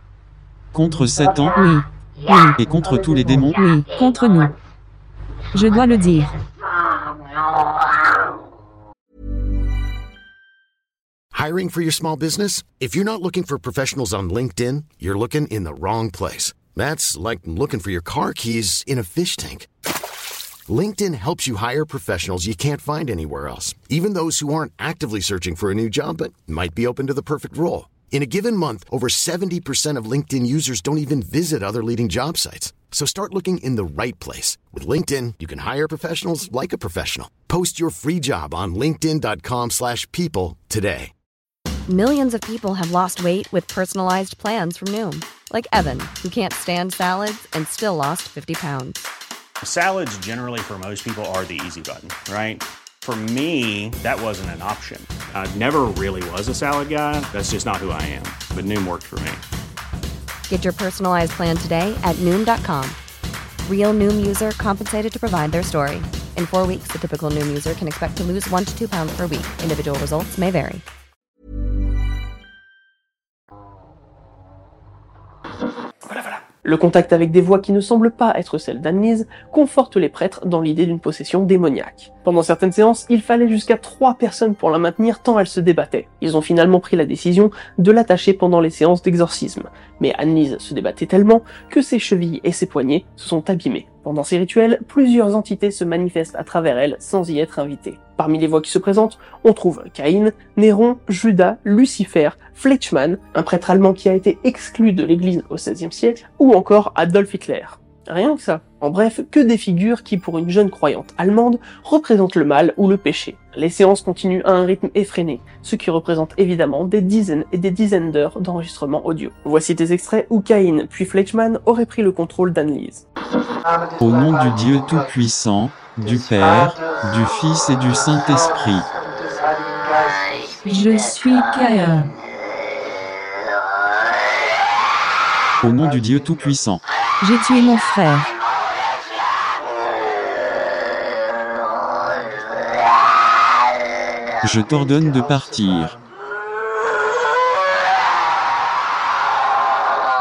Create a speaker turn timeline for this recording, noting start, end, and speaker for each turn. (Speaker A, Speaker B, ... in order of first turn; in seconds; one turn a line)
Speaker A: 0.7-1.6
Speaker B: 1.6-2.6
Speaker A: 2.6-3.7
Speaker B: 3.6-4.6
Speaker B: 5.5-6.3
Speaker C: 11.3-19.7
Speaker C: 20.7-41.1
Speaker D: 41.9-49.1
Speaker E: 49.6-59.4
Speaker D: 60.5-63.0
Speaker D: 63.7-70.8
Speaker F: 76.1-123.0
Speaker A: 124.0-128.9
Speaker B: 130.6-132.1
Speaker A: 135.6-136.8
Speaker B: 137.2-138.3
Speaker A: 144.4-146.0